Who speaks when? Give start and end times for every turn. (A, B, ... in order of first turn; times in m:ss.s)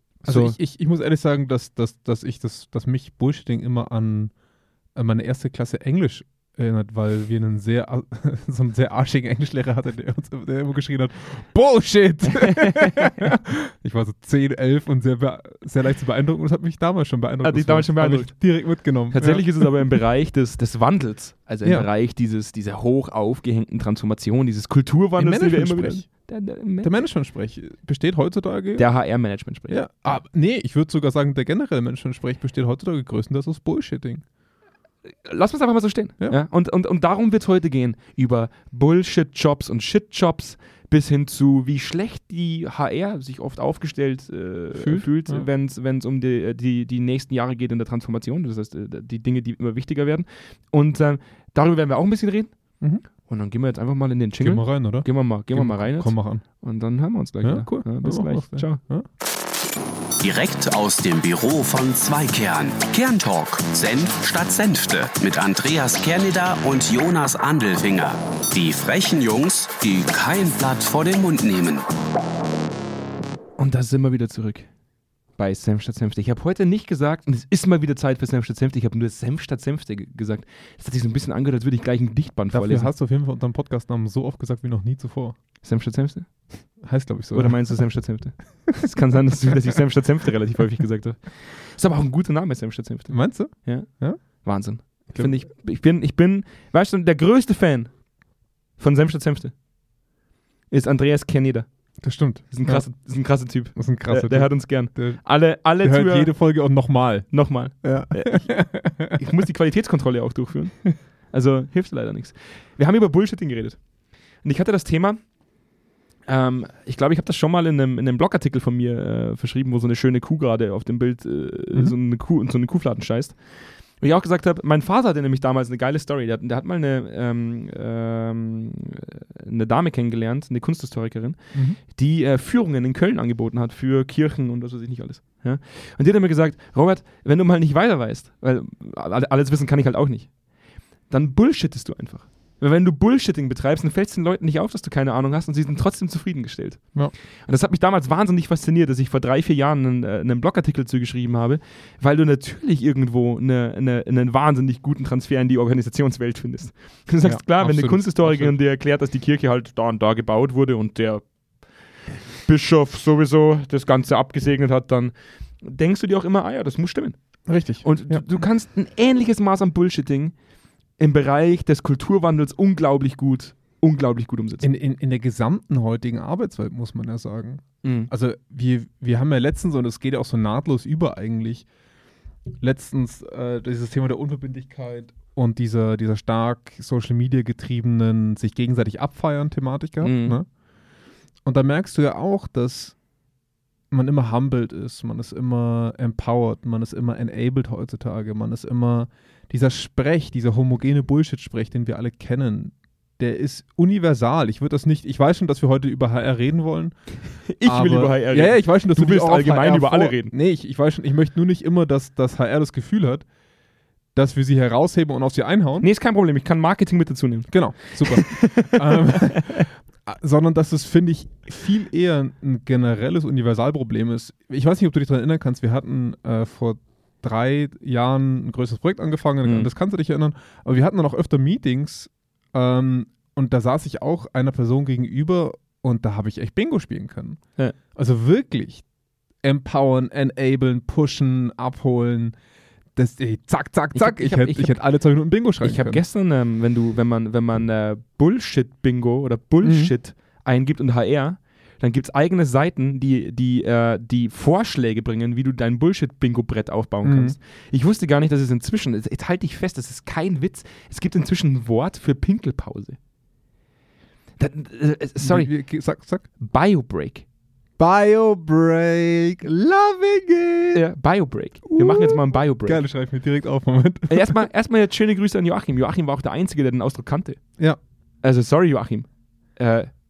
0:00.2-0:04.3 A
0:00.3-0:00.6 B
0:05.0-0:20.0 A
0:12.5-0:13.0 B
0:17.4-0:18.3 B
0:19.1-0:27.0 B
0:21.6-0:21.9 A
0:25.2-0:26.0 A
0:26.8-0:28.9 A
0:28.8-0:30.2 B
0:29.7-0:34.2 A
0:35.2-0:52.5 B
0:44.8-0:45.5 A
0:53.3-0:58.8 B
0:54.4-0:56.4 A
0:57.4-0:59.1 A
1:00.2-1:11.8 C
1:13.6-1:14.7 B
1:15.4-1:22.9 B
1:22.5-1:25.4 A
1:25.6-1:26.5 B
1:26.8-1:27.8 A
1:27.3-1:33.9 B
1:33.1-1:34.2 A
1:34.4-1:37.9 B
1:35.1-1:35.4 A
1:38.8-1:39.5 B
1:40.7-1:41.7 B
1:42.0-1:42.8 A
1:42.5-1:46.3 B
1:43.8-1:45.2 A
1:45.8-1:47.3 A
1:47.3-1:48.5 B
1:47.8-1:49.2 A
1:49.1-1:53.8 B
1:54.4-1:55.2 B
1:56.3-2:03.4 B
2:04.0-2:20.3 B
2:21.1-2:26.8 B
2:27.5-2:41.2 B
2:37.2-2:38.6 A
2:42.4-2:47.2 B
2:47.5-2:48.2 A
2:47.8-2:50.3 B
2:51.0-2:54.7 B
2:54.6-3:01.7 A
2:57.8-2:58.1 B
3:02.6-3:10.5 A
3:10.0-3:10.4 B
3:11.4-3:13.0 A
3:13.9-3:27.0 A
3:27.5-3:30.3 B
3:27.6-3:33.2 A
3:34.2-3:35.9 A
3:35.8-3:39.7 B
3:37.5-3:57.4 A
3:49.4-3:49.7 B
3:58.0-3:58.8 A
3:59.4-4:02.4 A
4:03.0-4:06.0 A
4:04.0-4:04.8 B
4:05.6-4:23.0 B
4:09.6-4:09.9 A
4:17.0-4:17.4 A
4:24.4-4:25.5 B
4:25.2-4:26.3 A
4:26.4-4:27.2 B
4:27.8-4:30.8 A
4:30.7-4:32.8 B
4:31.6-4:34.5 A
4:34.1-4:37.4 B
4:38.2-4:39.9 B